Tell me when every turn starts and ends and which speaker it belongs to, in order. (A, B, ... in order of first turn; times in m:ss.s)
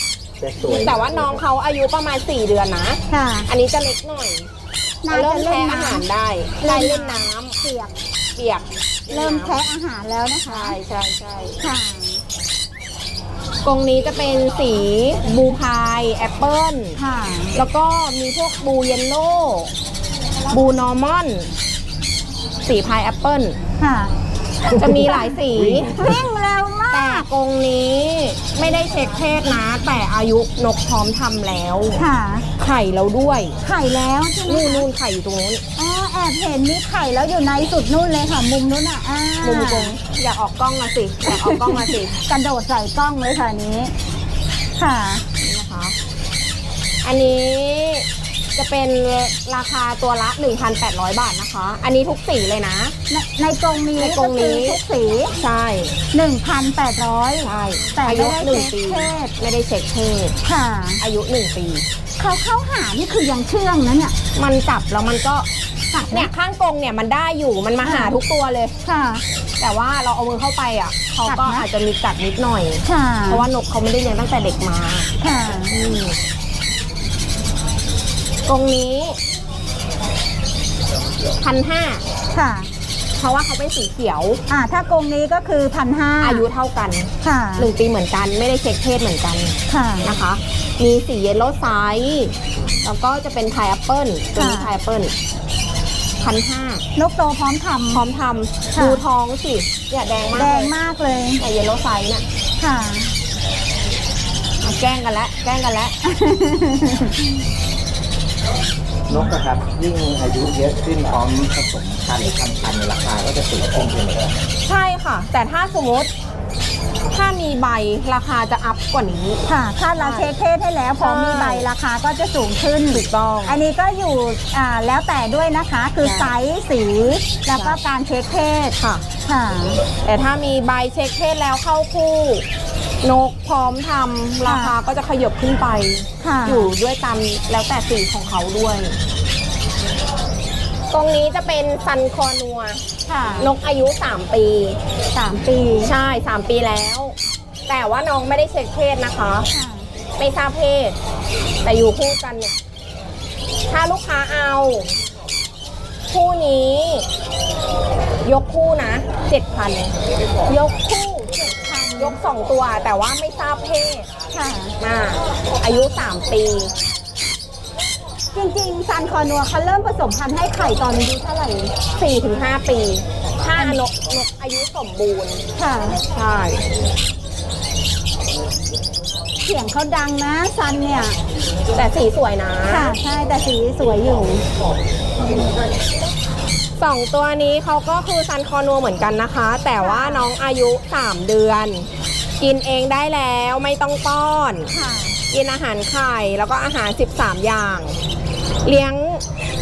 0:00.4-0:01.4 A
0:00.6-0:04.5 B
0:03.1-0:03.5 C
0:05.0-0:06.0 C
0:05.1-0:07.6 B
0:06.6-0:07.9 C
0:08.4-0:09.6 B
0:09.1-0:10.8 C
0:10.5-0:11.6 B
0:11.6-0:12.2 C
0:13.6-0:17.0 B
0:17.0-0:17.6 C
0:17.5-0:19.7 B
0:20.5-0:21.5 B
0:22.6-0:23.6 B
0:23.8-0:24.1 C
0:24.7-0:26.0 B
0:24.7-0:25.4 C
0:25.5-0:26.2 A
0:25.9-0:27.2 C
0:26.9-0:32.0 B
0:32.0-0:32.4 C
0:32.6-0:33.6 B
0:33.6-0:34.9 C
0:34.5-0:35.6 B
0:35.8-0:39.9 C
0:39.4-0:42.2 B
0:41.3-0:43.9 C
0:44.8-0:45.2 C
0:45.4-0:46.0 B
0:47.0-0:52.9 B
0:53.1-0:55.3 C
0:54.0-0:54.8 B
0:55.4-0:55.9 B
0:56.1-0:59.3 C
0:57.4-1:00.4 B
1:00.4-1:01.0 C
1:01.0-1:01.8 B
1:02.2-1:04.1 C
1:04.4-1:05.5 B
1:05.9-1:06.3 C
1:06.1-1:08.7 B
1:07.8-1:08.1 C
1:08.8-1:09.2 C
1:09.6-1:15.1 B
1:11.3-1:11.6 C
1:12.8-1:13.4 C
1:15.2-1:15.7 C
1:15.7-1:16.2 B
1:18.5-1:19.2 B
1:21.4-1:22.0 B
1:22.3-1:22.7 C
1:23.2-1:24.4 B
1:24.5-1:26.4 C
1:26.2-1:35.1 B
1:27.2-1:27.7 C
1:29.7-1:30.1 C
1:34.4-1:34.7 C
1:36.2-1:36.8 B
1:37.0-1:38.0 C
1:37.9-1:40.7 B
1:38.8-1:39.0 C
1:40.3-1:41.4 C
1:41.4-1:42.2 B
1:42.6-1:43.1 C
1:44.6-1:45.9 B
1:46.0-1:47.3 C
1:49.1-1:54.4 A
1:54.7-1:56.1 B
1:57.1-1:59.4 B
1:59.5-2:09.8 C
2:00.0-2:00.3 B
2:01.0-2:01.6 B
2:02.9-2:03.6 B
2:06.0-2:06.3 B
2:07.5-2:07.8 B
2:08.8-2:09.0 B
2:10.0-2:12.4 B
2:13.0-2:19.0 B
2:14.4-2:14.7 C
2:16.2-2:16.7 C
2:20.9-2:22.8 B
2:23.1-2:23.5 C
2:23.4-2:24.8 B
2:25.1-2:25.9 C
2:25.8-2:27.1 B
2:27.7-2:29.5 B
2:29.5-2:29.9 C
2:30.2-2:31.0 B
2:31.6-2:32.6 B
2:33.7-2:34.9 B
2:36.1-2:37.1 B
2:38.2-2:39.9 B
2:40.5-2:42.2 C
2:42.0-2:44.1 B
2:44.3-2:44.8 C
2:44.8-2:46.7 B
2:48.3-2:51.7 C
2:51.9-2:55.4 B
2:55.6-2:56.0 C
2:56.1-2:56.6 B
2:59.4-3:01.2 C
3:01.7-3:02.9 B
3:02.7-3:04.4 C
3:06.8-3:11.9 B
3:09.8-3:10.3 C
3:12.4-3:14.7 B
3:14.7-3:15.2 C
3:15.3-3:18.0 B
3:18.6-3:19.2 B